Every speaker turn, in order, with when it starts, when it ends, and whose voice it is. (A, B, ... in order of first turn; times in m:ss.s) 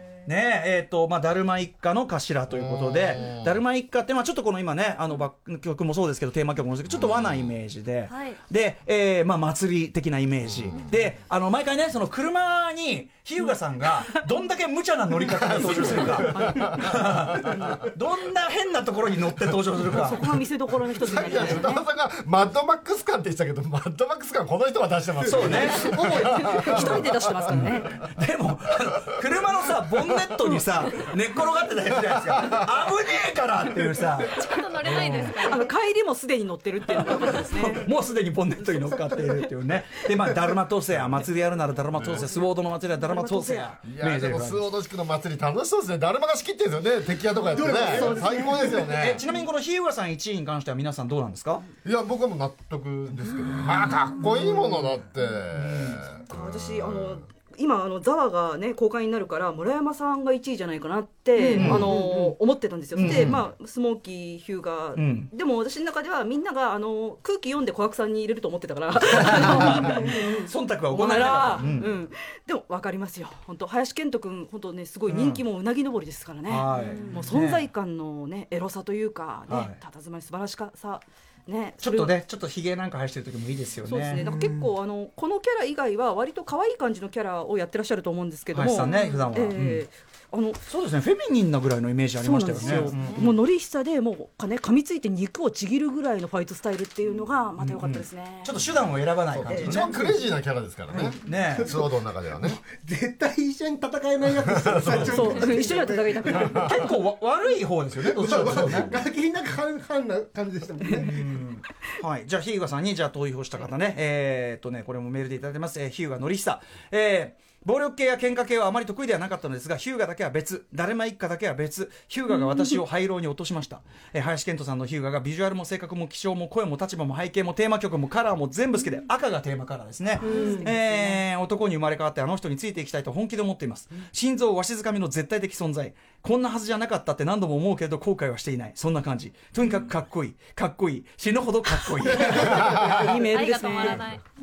0:00.2-0:20.3 A
0:02.5-0:03.5 B
0:06.9-0:07.5 B
0:08.1-0:08.4 C
0:10.5-0:10.9 B
0:15.3-0:17.7 B
0:15.8-0:16.9 D
0:19.9-0:21.8 D
0:21.0-0:27.6 B
0:25.2-0:25.6 E
0:25.2-0:26.1 A
0:25.8-0:27.9 D
0:26.1-0:26.9 E
0:27.5-0:35.4 A
0:34.3-0:35.7 C
0:35.4-0:37.8 D
0:37.0-0:44.7 A
0:40.9-0:41.2 B
0:41.9-0:42.2 B
0:43.0-0:43.7 D
0:43.8-0:49.2 B
0:47.5-0:48.9 E
0:47.9-0:48.7 D
0:48.8-0:51.6 A
0:51.8-0:57.2 B
0:55.6-0:56.0 A
0:56.3-1:22.1 D
1:01.4-1:02.3 E
1:01.5-1:02.0 A
1:02.9-1:03.4 A
1:04.9-1:05.3 A
1:09.0-1:11.9 A
1:15.1-1:15.4 A
1:16.5-1:17.6 A
1:16.7-1:17.2 C
1:19.5-1:19.8 A
1:21.8-1:24.2 A
1:23.8-1:30.6 D
1:24.1-1:24.7 E
1:28.5-1:29.8 A
1:30.6-1:33.3 A
1:32.2-1:38.6 D
1:33.0-1:33.3 B
1:37.6-1:39.9 A
1:39.3-1:42.6 B
1:39.6-1:40.3 E
1:40.9-1:41.7 A
1:41.0-1:41.9 E
1:42.4-1:46.7 E
1:44.4-1:45.5 B
1:45.0-1:46.9 D
1:46.3-1:46.6 B
1:46.6-1:49.0 A
1:48.0-1:51.2 E
1:50.9-2:22.9 A
2:10.2-2:11.2 D
2:10.3-2:10.7 E
2:22.1-2:24.0 D
2:23.0-2:24.2 C